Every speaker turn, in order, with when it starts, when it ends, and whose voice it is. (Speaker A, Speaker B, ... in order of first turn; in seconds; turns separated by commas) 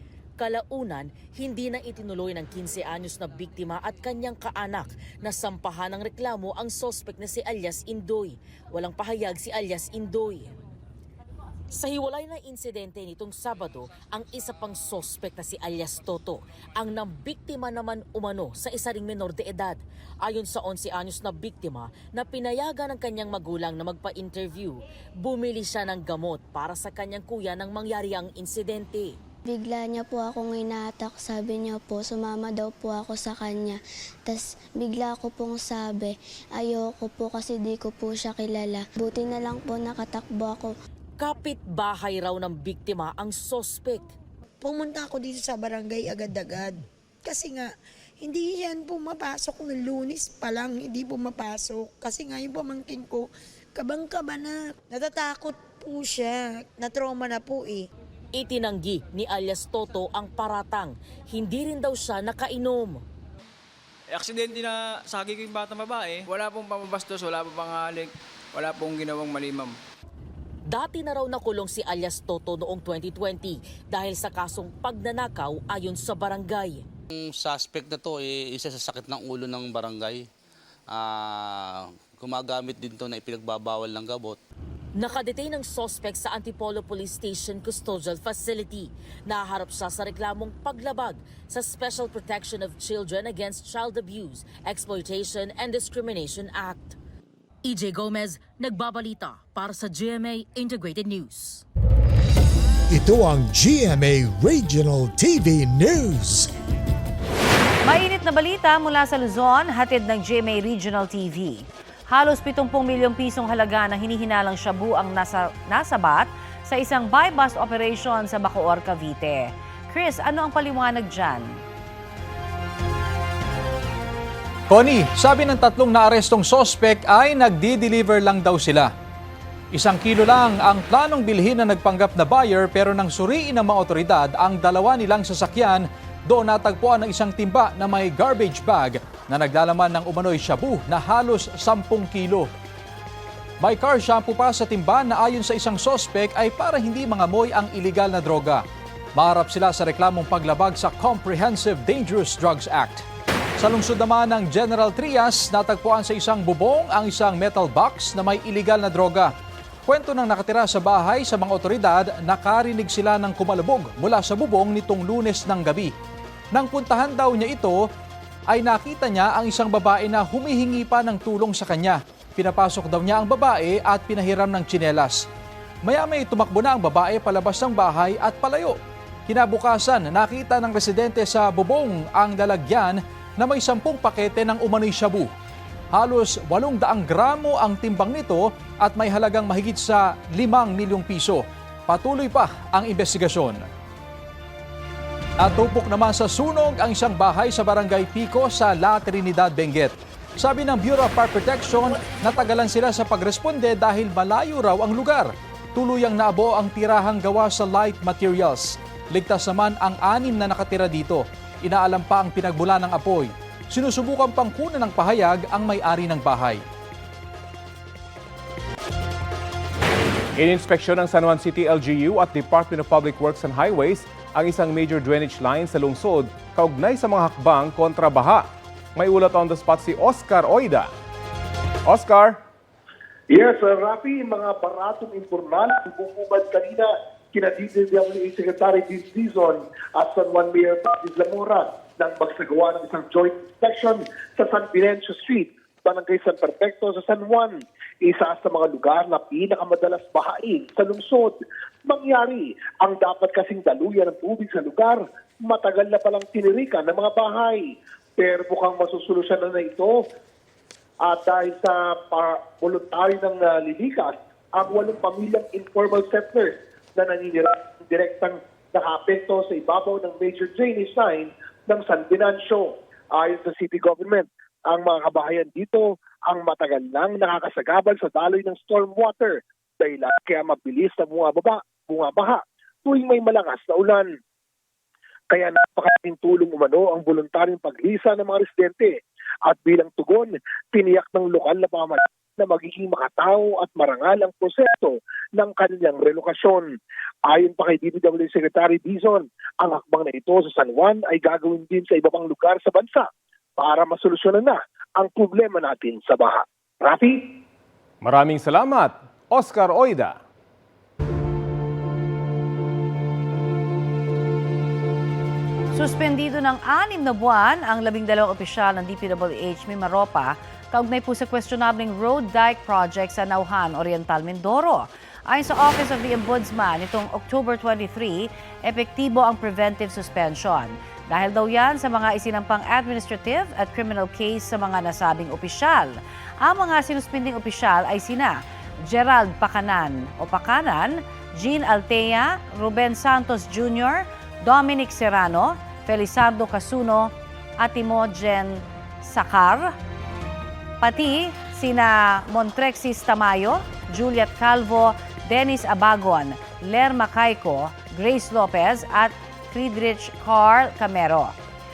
Speaker A: 0.4-10.5, Speaker A: 11.7-29.1, Speaker B: 29.5-40.7, Speaker A: 41.2-44.1, Speaker C: 44.6-57.9, Speaker A: 58.3-63.0, Speaker D: 64.1-69.8, Speaker A: 70.7-76.8, Speaker E: 77.1-80.2, Speaker E: 80.9-84.4, Speaker A: 85.0-97.0, Speaker A: 97.6-101.6, Speaker F: 102.9-106.5, Speaker G: 107.8-121.6, Speaker H: 124.7-128.9, Speaker H: 129.7-142.5, Speaker H: 143.6-148.6, Speaker H: 149.2-153.0, Speaker H: 153.6-159.3, Speaker H: 159.9-165.9, Speaker H: 166.5-167.9, Speaker H: 168.5-175.3, Speaker H: 175.8-178.8, Speaker H: 179.3-185.3, Speaker H: 185.9-193.6, Speaker H: 195.4-216.6, Speaker I: 220.4-228.4, Speaker I: 228.9-230.9, Speaker I: 231.9-232.4, Speaker J: 233.3-259.9, Speaker J: 261.1-284.1, Speaker J: 285.3-288.9, Speaker J: 289.5-296.7, Speaker J: 297.3-307.2, Speaker I: 308.0-310.1, Speaker G: 315.7-349.7, Speaker G: 350.8-361.3